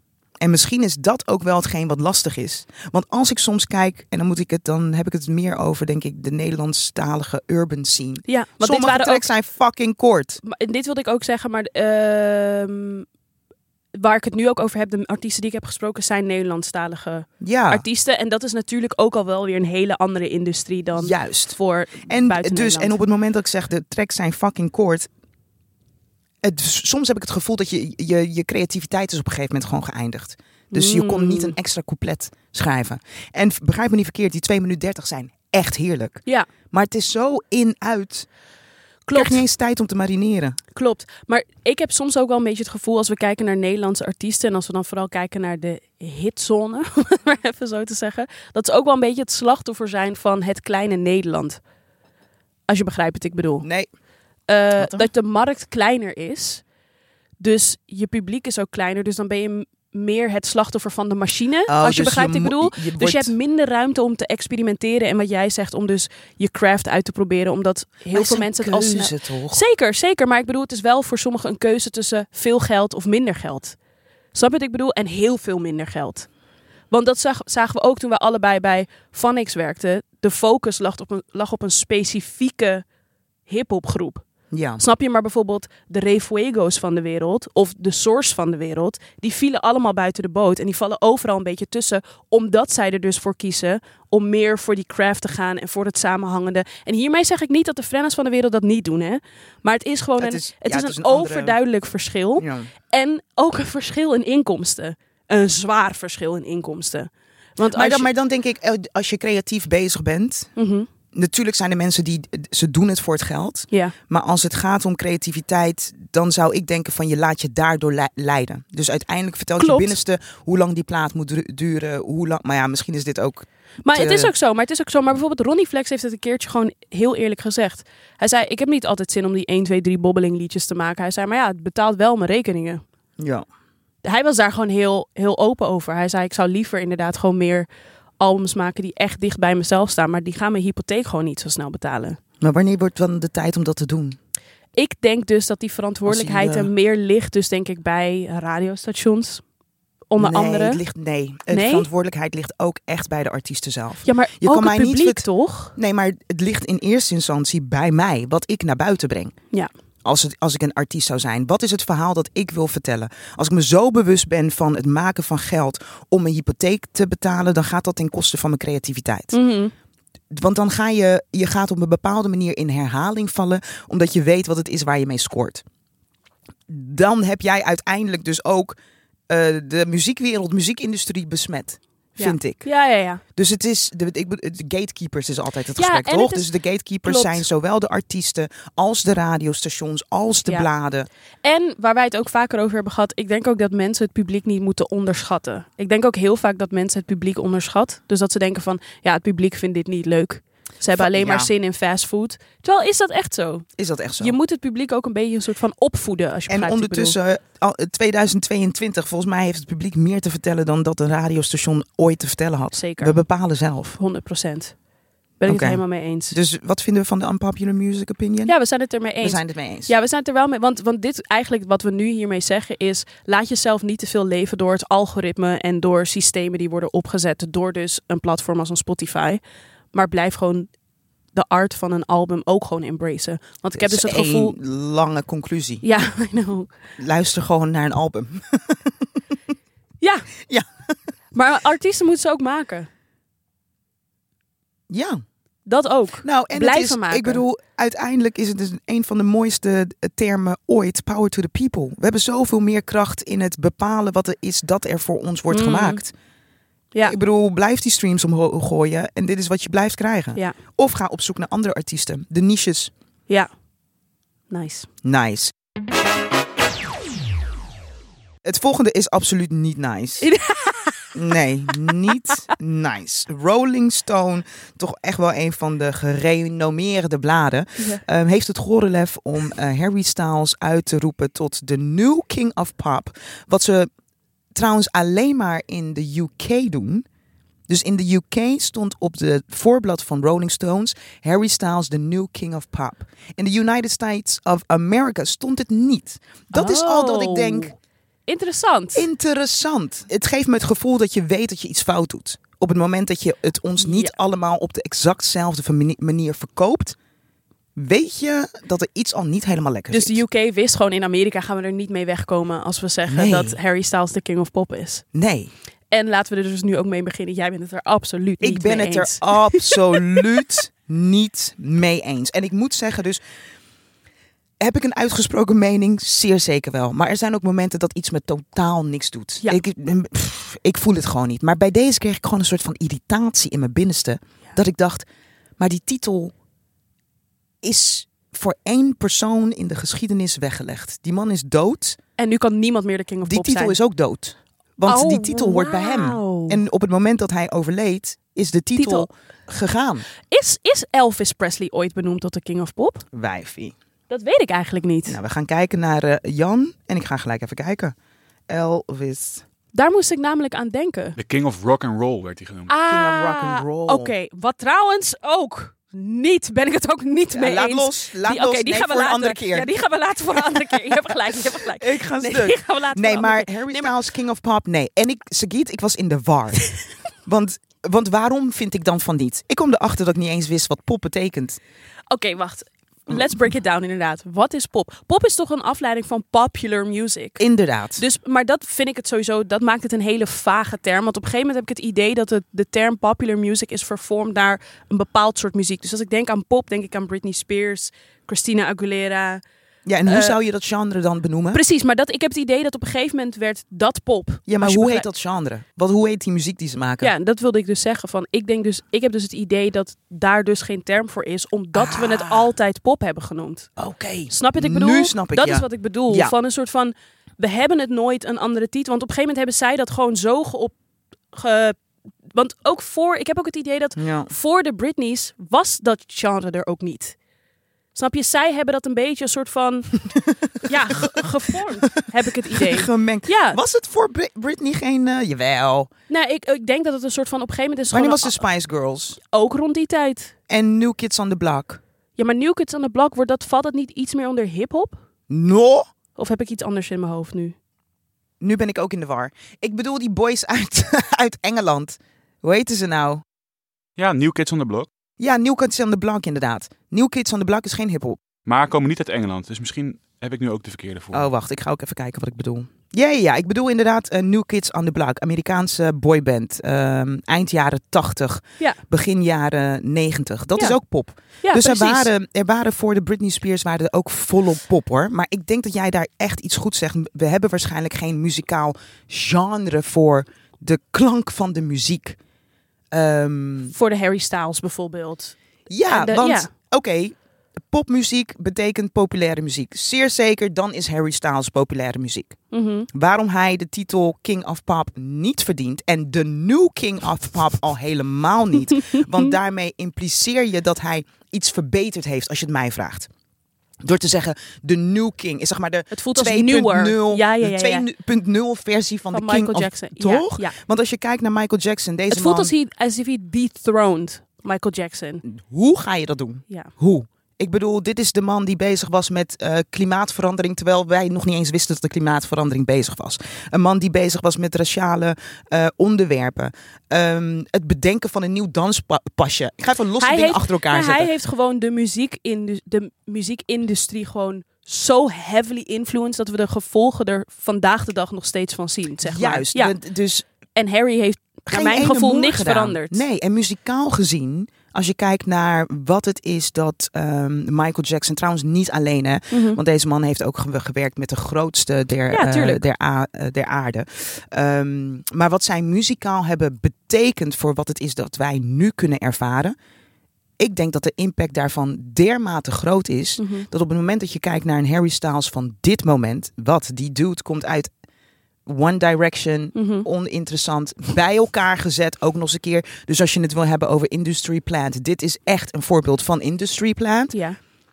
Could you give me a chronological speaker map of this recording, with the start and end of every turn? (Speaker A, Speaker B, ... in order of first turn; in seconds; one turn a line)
Speaker A: 0.4-10.4
Speaker B: 8.3-9.2
Speaker B: 10.4-13.1
Speaker B: 14.0-23.0
Speaker A: 17.4-17.8
Speaker A: 21.0-25.1
Speaker A: 26.4-38.3
Speaker B: 30.7-31.5
Speaker B: 39.0-39.4
Speaker A: 39.1-40.6
Speaker B: 40.7-51.6
Speaker B: 52.7-53.6
Speaker A: 53.6-53.9
Speaker B: 54.5-56.6
Speaker A: 54.8-55.1
Speaker B: 57.4-73.8
Speaker A: 61.7-63.3
Speaker A: 68.1-69.6
Speaker B: 74.3-76.3
Speaker B: 76.9-82.8
Speaker B: 83.5-84.2
Speaker A: 84.5-84.8
Speaker B: 84.8-108.1
Speaker A: 100.2-101.5
Speaker A: 102.4-102.7
Speaker A: 107.7-110.5
Speaker B: 110.5-110.9
Speaker A: 111.1-124.3
Speaker B: 119.6-120.0
Speaker B: 123.8-132.8
Speaker A: 133.2-133.4
Speaker B: 134.0-137.7
Speaker B: 138.2-142.2
Speaker A: 142.4-144.2
Speaker B: 144.8-149.4
Speaker A: 146.1-146.7
Speaker B: 150.1-150.8
Speaker A: 150.2-159.3
Speaker B: 151.5-151.9
Speaker B: 154.0-155.7
Speaker A: 160.0-169.3
Speaker B: 169.3-169.7
Speaker A: 170.3-175.6
Speaker A: 176.7-178.7
Speaker A: 179.3-182.7
Speaker B: 182.2-183.2
Speaker A: 183.3-191.1
Speaker B: 185.8-186.5
Speaker B: 187.0-187.4
Speaker B: 191.4-203.7
Speaker A: 200.9-201.5
Speaker A: 203.8-204.3
Speaker B: 204.2-207.1
Speaker A: 206.5-214.0
Speaker B: 212.7-213.2
Speaker B: 214.0-214.8
Speaker B: 215.4-216.3
Speaker A: 215.5-218.5
Speaker B: 218.4-229.4
Speaker A: 219.2-219.9
Speaker B: 229.9-230.7
Speaker B: 231.3-234.6
Speaker A: 233.7-235.8
Speaker B: 235.8-236.7
Speaker A: 237.0-239.2
Speaker B: 240.0-240.3
Speaker B: 241.3-242.9
Speaker A: 244.9-245.2
Speaker B: 245.7-247.4
Speaker A: 246.2-256.1
Speaker B: 255.5-256.0
Speaker A: 257.0-262.9
Speaker B: 264.5-264.9
Speaker A: 265.0-265.5
Speaker A: 268.4-270.3
Speaker B: 270.2-271.1
Speaker A: 271.1-283.9
Speaker A: 284.5-287.1
Speaker A: 287.7-297.8
Speaker B: 296.5-297.7
Speaker B: 298.3-299.1
Speaker A: 298.9-306.9
Speaker B: 303.8-304.1
Speaker A: 307.8-310.2
Speaker B: 309.9-315.0
Speaker A: 313.1-313.6
Speaker A: 315.1-315.5
Speaker B: 315.9-320.2
Speaker A: 318.4-323.2
Speaker A: 324.6-335.1
Speaker A: 335.6-336.3
Speaker A: 337.6-342.0
Speaker B: 342.2-343.8
Speaker A: 343.2-350.1
Speaker B: 344.9-346.6
Speaker B: 348.8-349.1
Speaker B: 350.3-353.0
Speaker A: 353.1-353.7
Speaker B: 354.1-355.2
Speaker A: 355.1-357.9
Speaker A: 358.5-359.4
Speaker B: 359.7-361.1
Speaker C: 361.2-362.7
Speaker B: 362.7-373.9
Speaker A: 362.9-364.1
Speaker A: 367.3-369.7
Speaker A: 370.5-371.0
Speaker A: 371.5-376.6
Speaker A: 377.2-381.6
Speaker B: 382.1-387.4
Speaker A: 387.4-388.0
Speaker B: 388.0-399.4
Speaker A: 399.9-401.6
Speaker B: 400.1-400.4
Speaker B: 401.5-405.1
Speaker A: 404.5-407.1
Speaker B: 407.0-413.7
Speaker A: 411.7-412.5
Speaker A: 413.8-416.3
Speaker B: 414.3-420.7
Speaker B: 421.3-421.8
Speaker B: 422.3-427.1
Speaker A: 424.0-424.3
Speaker B: 427.9-430.0
Speaker B: 430.6-433.6
Speaker A: 430.9-431.2
Speaker A: 432.5-435.9
Speaker B: 436.1-438.4
Speaker A: 437.9-439.2
Speaker B: 439.2-440.3
Speaker A: 440.5-441.8
Speaker B: 442.2-445.0
Speaker A: 445.3-445.9
Speaker B: 446.1-447.5
Speaker A: 448.4-453.2
Speaker C: 454.0-454.9
Speaker A: 455.2-458.2
Speaker C: 458.4-461.2
Speaker A: 461.1-482.2
Speaker B: 471.4-472.1
Speaker A: 482.9-483.7
Speaker B: 483.7-485.4
Speaker A: 485.7-487.1
Speaker B: 485.9-486.5
Speaker A: 487.7-492.4
Speaker B: 492.5-492.9
Speaker A: 492.9-503.1
Speaker A: 503.8-512.5
Speaker B: 505.9-507.8
Speaker B: 509.1-510.6
Speaker B: 512.1-515.2
Speaker A: 515.2-531.1
Speaker B: 530.0-539.8
Speaker A: 539.0-540.2
Speaker B: 540.5-543.0
Speaker A: 541.5-559.5
Speaker B: 549.3-549.6
Speaker B: 552.1-552.6
Speaker A: 560.4-567.7
Speaker B: 563.2-563.5
Speaker A: 568.5-577.1
Speaker B: 569.5-569.9